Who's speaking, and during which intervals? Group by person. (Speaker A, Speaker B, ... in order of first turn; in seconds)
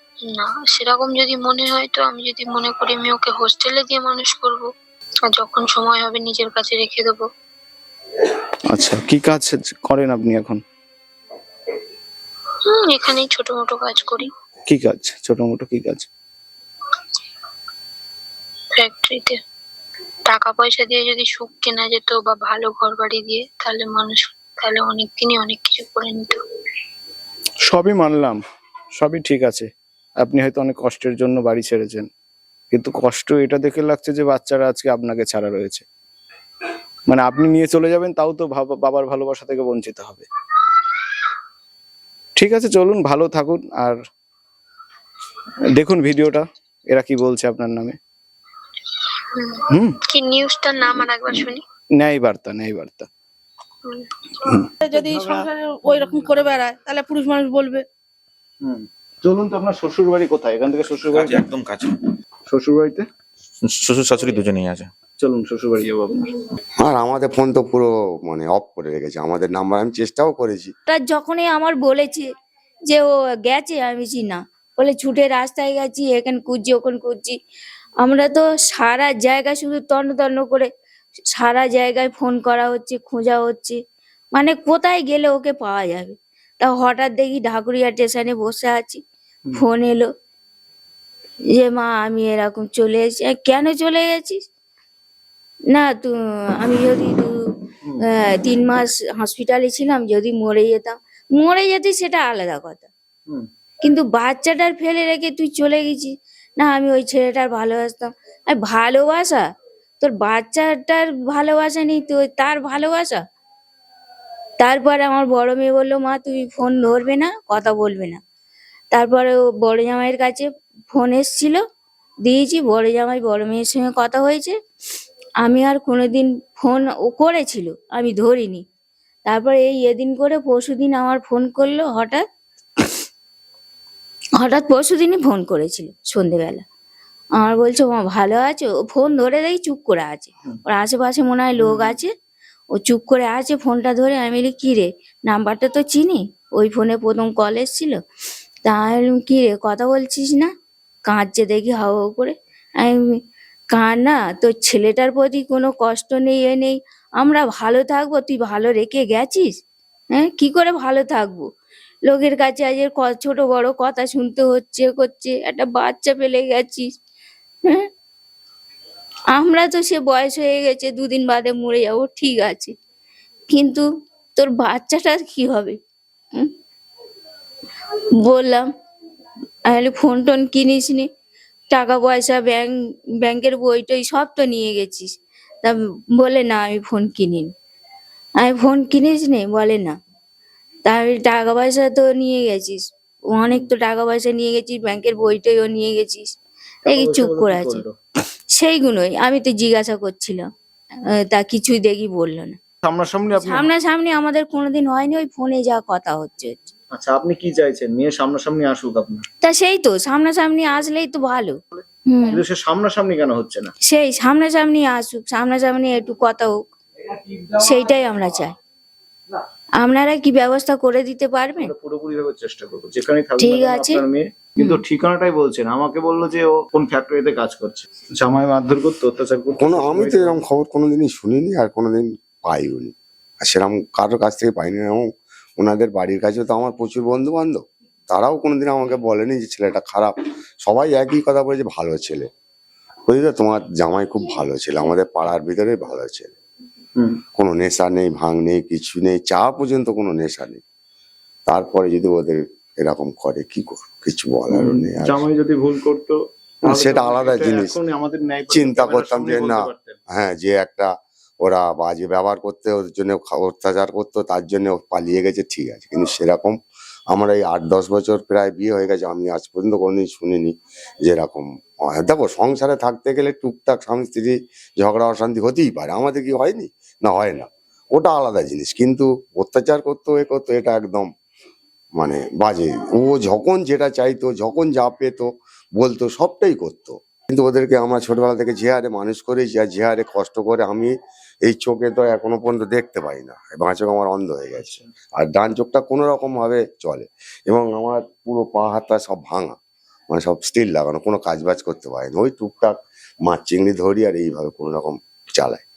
Speaker A: 0.3-4.7, 5.3-7.2, 12.8-14.3, 18.8-19.4, 20.3-26.4, 50.1-51.6
Speaker B: 8.7-10.6, 14.7-16.1, 27.7-28.4, 29.0-29.7, 30.2-32.1, 32.7-35.8, 37.1-40.2, 42.4-44.0, 45.8-48.0, 49.7-50.0, 52.0-53.1, 54.4-55.5, 58.6-61.4, 62.5-63.0, 65.2-66.2, 141.6-142.0, 193.4-193.7, 196.8-197.9, 202.8-203.7, 206.9-209.2, 211.8-213.7, 217.1-217.7, 221.6-230.4, 254.5-260.0, 294.6-294.8
Speaker C: 54.8-57.8
Speaker D: 61.1-61.9, 63.6-64.9
Speaker E: 66.8-70.7, 229.6-242.3, 243.1-246.3, 247.3-250.6, 251.5-255.2, 256.7-257.8, 258.5-266.6, 267.1-281.1, 282.0-299.6, 300.1-305.6
Speaker F: 70.9-72.3, 72.9-77.4, 78.0-80.7, 81.4-83.8, 84.3-89.0, 89.5-90.1, 91.6-94.4, 95.7-97.3, 98.4-102.9, 103.8-109.4, 110.0-113.2, 114.6-118.2, 118.9-121.6, 122.2-124.5, 125.4-128.6, 129.3-132.2, 134.4-136.6, 137.4-142.1, 142.8-148.0, 148.6-150.5, 151.1-153.2, 153.7-159.5, 160.1-161.4, 162.1-166.9, 169.3-172.7, 173.5-173.8, 174.3-175.8, 178.2-178.7, 179.7-181.1, 181.7-182.7, 183.2-185.1, 185.6-187.5, 188.4-189.9, 190.8-192.8, 193.3-196.3, 196.9-197.8, 198.5-200.4, 201.3-202.6, 203.4-206.5, 209.4-211.6, 212.1-212.4, 213.9-216.6, 217.6-218.6, 219.8-221.7, 223.4-224.0